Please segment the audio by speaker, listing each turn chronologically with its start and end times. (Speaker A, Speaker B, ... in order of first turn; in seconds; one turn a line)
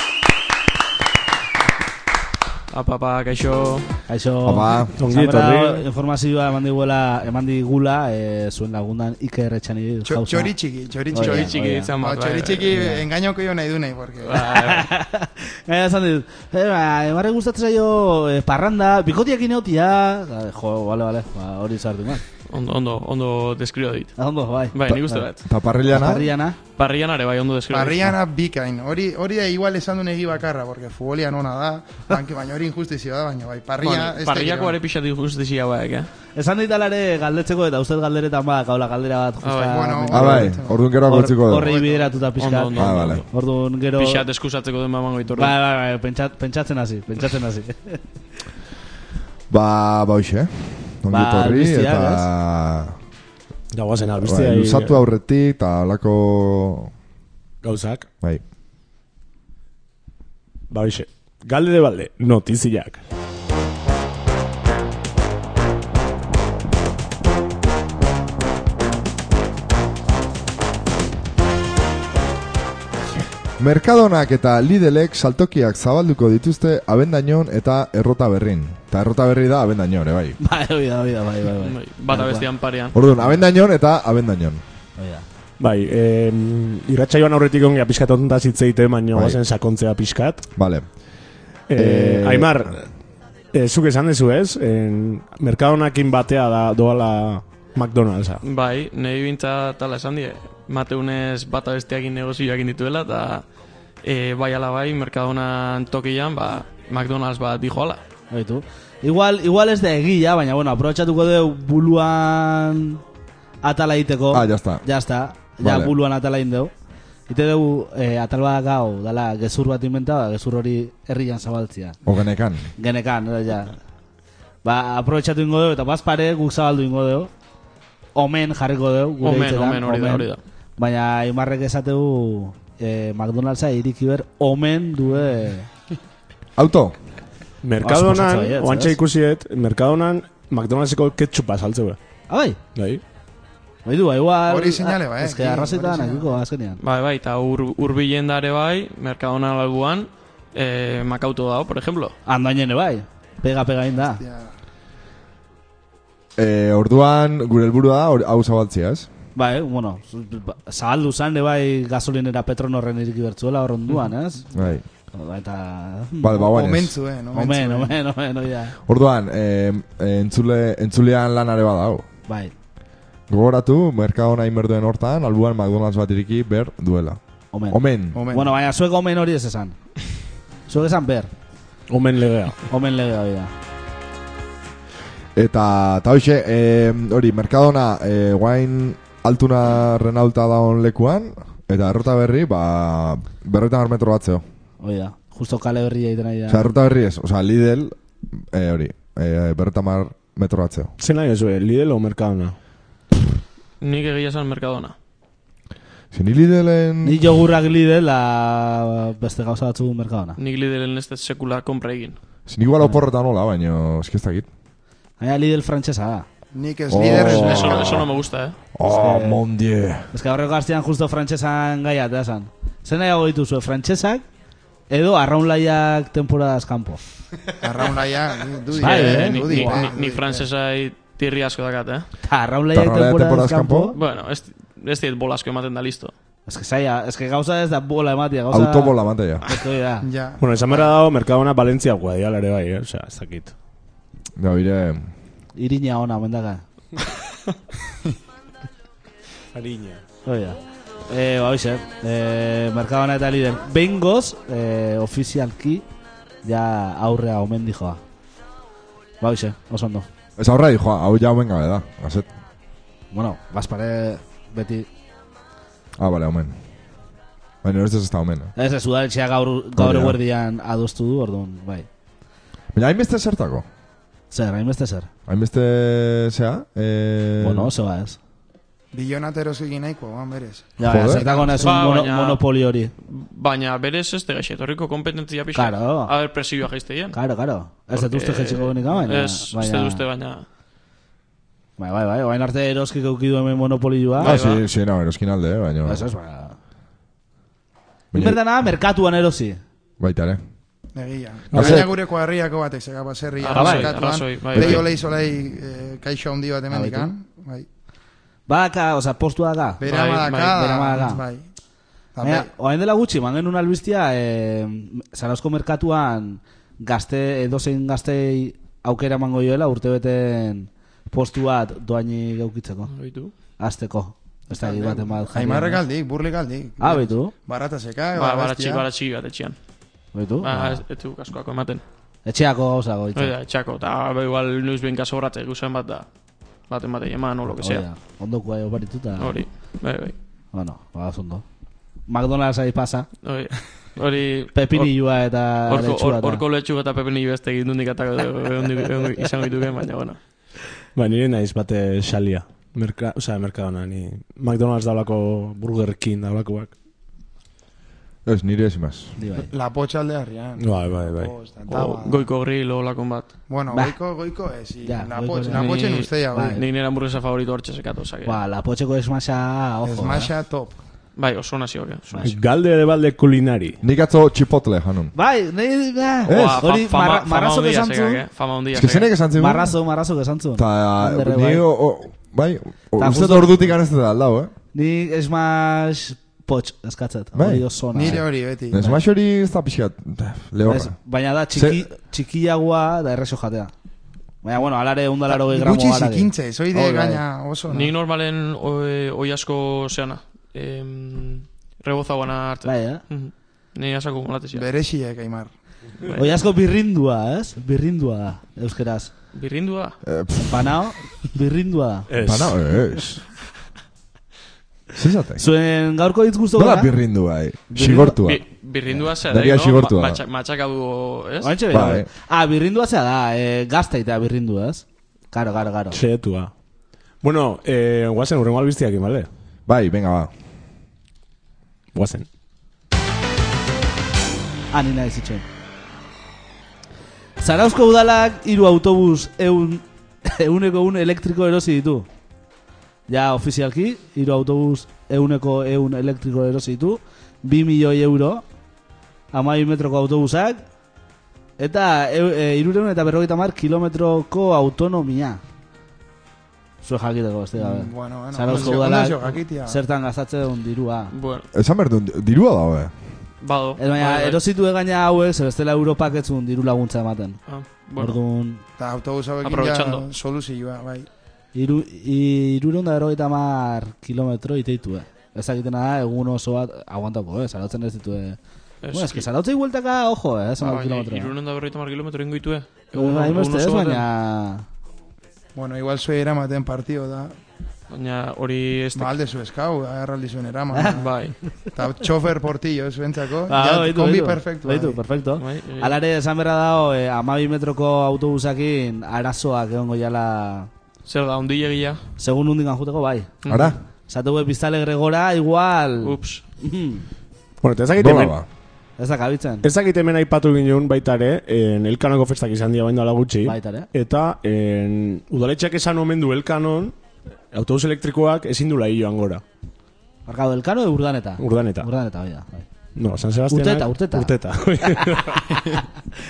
Speaker A: 2.7-3.9
Speaker B: 4.1-10.5
Speaker C: 4.5-4.9
Speaker D: 5.0-5.8
Speaker E: 10.1-14.4
Speaker B: 11.1-11.9
Speaker A: 11.2-12.7
Speaker B: 12.7-13.0
Speaker A: 14.2-14.9
Speaker B: 14.3-22.2
Speaker A: 22.5-24.2
Speaker B: 24.2-25.3
Speaker A: 24.7-25.4
Speaker C: 25.4-26.3
Speaker B: 25.9-26.6
Speaker A: 26.8-28.1
Speaker E: 27.7-34.8
Speaker A: 33.8-36.1
Speaker B: 36.4-44.2
Speaker A: 39.4-39.9
Speaker E: 39.7-40.9
Speaker C: 40.1-41.7
Speaker E: 41.5-42.2
Speaker A: 42.4-43.3
Speaker C: 42.7-43.2
Speaker A: 44.0-45.5
Speaker B: 45.4-48.0
Speaker C: 49.5-53.0
Speaker B: 51.1-52.3
Speaker D: 53.7-55.0
Speaker C: 54.2-56.9
Speaker D: 57.6-58.1
Speaker D: 60.7-63.0
Speaker C: 73.6-80.4
Speaker B: 80.4-82.5
Speaker A: 81.6-83.0
Speaker C: 82.9-84.6
Speaker B: 85.0-85.2
Speaker D: 85.6-90.5
Speaker C: 89.1-89.4
Speaker C: 90.6-90.9
Speaker D: 91.7-92.9
Speaker C: 91.8-92.5
Speaker D: 93.5-98.4
Speaker A: 98.4-103.4
Speaker A: 104.0-108.0
Speaker B: 108.3-113.0
Speaker B: 113.6-116.7
Speaker C: 114.3-114.8
Speaker C: 115.6-115.9
Speaker B: 117.3-122.0
Speaker C: 122.0-122.7
Speaker B: 122.8-123.8
Speaker B: 124.6-127.3
Speaker B: 128.2-135.7
Speaker A: 129.2-130.4
Speaker C: 136.6-137.0
Speaker D: 137.6-142.0
Speaker B: 137.8-139.0
Speaker B: 142.3-142.6
Speaker D: 142.8-143.0
Speaker B: 143.9-146.8
Speaker E: 144.5-146.3
Speaker A: 146.8-152.1
Speaker B: 152.3-154.2
Speaker E: 154.0-154.5
Speaker C: 156.4-159.1
Speaker B: 159.4-166.4
Speaker C: 164.5-164.8
Speaker C: 166.2-167.0
Speaker E: 166.3-167.9
Speaker B: 167.3-168.8
Speaker C: 168.9-172.1
Speaker B: 172.3-172.5
Speaker C: 173.3-178.2
Speaker B: 177.5-179.8
Speaker E: 178.1-178.6
Speaker B: 180.7-181.3
Speaker D: 181.9-182.6
Speaker B: 182.7-183.5
Speaker C: 185.4-194.4
Speaker B: 194.8-196.7
Speaker C: 196.5-200.9
Speaker D: 201.0-202.6
Speaker A: 203.8-204.9
Speaker C: 206.1-207.3
Speaker B: 207.0-210.4
Speaker A: 210.4-212.2
Speaker C: 212.5-214.5
Speaker B: 215.2-216.3
Speaker E: 216.5-218.1
Speaker C: 216.9-218.1
Speaker A: 217.1-218.6
Speaker C: 218.8-220.1
Speaker B: 218.8-219.4
Speaker B: 220.1-224.2
Speaker B: 224.9-227.0
Speaker E: 227.6-230.5
Speaker B: 228.8-229.9
Speaker A: 228.8-232.1
Speaker B: 232.3-234.0
Speaker C: 232.7-233.9
Speaker A: 233.9-236.1
Speaker B: 236.5-240.1
Speaker C: 238.5-239.4
Speaker E: 240.0-240.9
Speaker D: 240.4-243.5
Speaker C: 244.4-245.1
Speaker B: 245.6-246.6
Speaker D: 249.5-250.0
Speaker B: 250.2-250.6
Speaker B: 251.1-255.8
Speaker B: 256.4-258.0
Speaker B: 259.2-260.1
Speaker C: 260.4-262.3
Speaker B: 263.1-264.9
Speaker C: 266.0-266.6
Speaker C: 267.6-268.5
Speaker B: 268.6-271.9
Speaker C: 269.8-270.2
Speaker C: 272.7-273.7
Speaker B: 274.3-275.1
Speaker C: 275.3-277.7
Speaker B: 277.4-278.2
Speaker E: 278.9-281.8
Speaker B: 280.8-282.9
Speaker C: 280.8-281.3
Speaker A: 281.6-282.4
Speaker A: 283.1-287.2
Speaker B: 285.6-286.1
Speaker B: 287.1-290.0
Speaker A: 287.9-290.4
Speaker B: 291.8-294.3
Speaker C: 294.2-296.1
Speaker A: 294.2-294.6
Speaker B: 295.9-296.6
Speaker C: 298.1-298.4
Speaker B: 298.1-299.6
Speaker C: 300.0-300.4
Speaker E: 300.9-307.7
Speaker C: 301.5-301.9
Speaker A: 303.4-304.9
Speaker B: 303.6-303.9
Speaker C: 304.5-304.8
Speaker B: 306.7-307.1
Speaker B: 308.5-309.8
Speaker E: 309.8-311.4
Speaker A: 309.8-310.6
Speaker B: 310.3-311.2
Speaker E: 312.2-312.5
Speaker B: 312.2-322.9
Speaker A: 322.9-323.3
Speaker B: 323.6-325.8
Speaker E: 324.5-328.9
Speaker B: 326.8-327.3
Speaker A: 328.2-329.6
Speaker B: 330.1-330.8
Speaker A: 330.4-331.8
Speaker B: 332.3-333.4
Speaker A: 333.2-336.1
Speaker A: 336.7-337.9
Speaker B: 337.5-339.4
Speaker A: 339.2-340.1
Speaker B: 340.5-341.4
Speaker B: 342.1-343.1
Speaker A: 343.2-344.9
Speaker B: 344.6-346.4
Speaker A: 345.7-350.2
Speaker D: 351.0-356.7
Speaker C: 358.3-359.1
Speaker B: 359.2-359.5
Speaker E: 359.4-362.3
Speaker D: 360.6-361.3
Speaker A: 361.7-363.3
Speaker E: 363.5-366.6
Speaker B: 363.7-364.0
Speaker B: 364.8-365.7
Speaker A: 365.5-368.4
Speaker B: 366.3-366.6
Speaker B: 368.2-370.3
Speaker E: 369.9-370.8
Speaker A: 371.2-372.3
Speaker D: 372.2-373.8
Speaker C: 373.8-375.1
Speaker B: 375.1-378.2
Speaker A: 376.3-379.1
Speaker C: 376.3-376.6
Speaker C: 378.7-379.7
Speaker B: 379.4-381.6
Speaker C: 380.6-384.5
Speaker B: 383.0-383.8
Speaker B: 384.7-388.2
Speaker C: 387.4-391.0
Speaker E: 387.9-389.0
Speaker B: 390.7-393.7
Speaker C: 391.6-391.8
Speaker B: 394.4-397.2
Speaker E: 395.3-397.9
Speaker A: 397.7-404.7
Speaker B: 402.6-403.0
Speaker E: 404.5-405.5
Speaker A: 406.0-406.3
Speaker B: 406.1-409.1
Speaker A: 409.3-410.0
Speaker C: 410.1-410.7
Speaker B: 410.4-412.1
Speaker D: 412.1-412.6
Speaker C: 412.2-413.2
Speaker C: 414.9-415.4
Speaker B: 415.4-416.9
Speaker C: 416.6-420.2
Speaker B: 417.7-418.2
Speaker A: 418.0-421.6
Speaker B: 421.4-426.0
Speaker C: 421.7-422.1
Speaker D: 425.9-426.5
Speaker D: 427.2-429.3
Speaker C: 429.7-430.3
Speaker D: 431.9-432.3
Speaker B: 434.7-435.4
Speaker B: 437.4-442.1
Speaker B: 443.1-448.4
Speaker B: 449.3-450.6
Speaker B: 451.6-455.4
Speaker B: 456.8-461.1
Speaker E: 457.6-459.8
Speaker A: 458.5-458.9
Speaker A: 461.1-461.5
Speaker C: 461.5-462.9
Speaker A: 463.4-464.4
Speaker B: 463.8-467.4
Speaker A: 467.5-468.2
Speaker B: 468.0-468.6
Speaker E: 468.8-471.1
Speaker A: 469.4-470.1
Speaker B: 471.6-478.4
Speaker A: 478.8-479.3
Speaker B: 478.9-481.3
Speaker A: 480.6-484.1
Speaker B: 482.9-484.7
Speaker E: 485.6-487.4
Speaker A: 487.9-489.2
Speaker E: 488.9-491.1
Speaker B: 490.7-491.5
Speaker A: 491.0-491.4
Speaker E: 491.7-495.0
Speaker B: 493.5-500.7
Speaker A: 495.4-496.0
Speaker A: 501.1-502.0
Speaker B: 502.2-503.3
Speaker A: 503.4-503.8
Speaker C: 503.5-503.8
Speaker B: 504.1-507.1
Speaker A: 506.0-506.4
Speaker D: 507.6-508.4
Speaker C: 508.0-508.5
Speaker B: 509.0-509.7
Speaker D: 509.6-517.0
Speaker B: 513.4-513.9
Speaker D: 517.5-519.4
Speaker B: 520.3-522.7
Speaker D: 521.4-521.9
Speaker D: 523.0-525.9
Speaker B: 523.5-524.3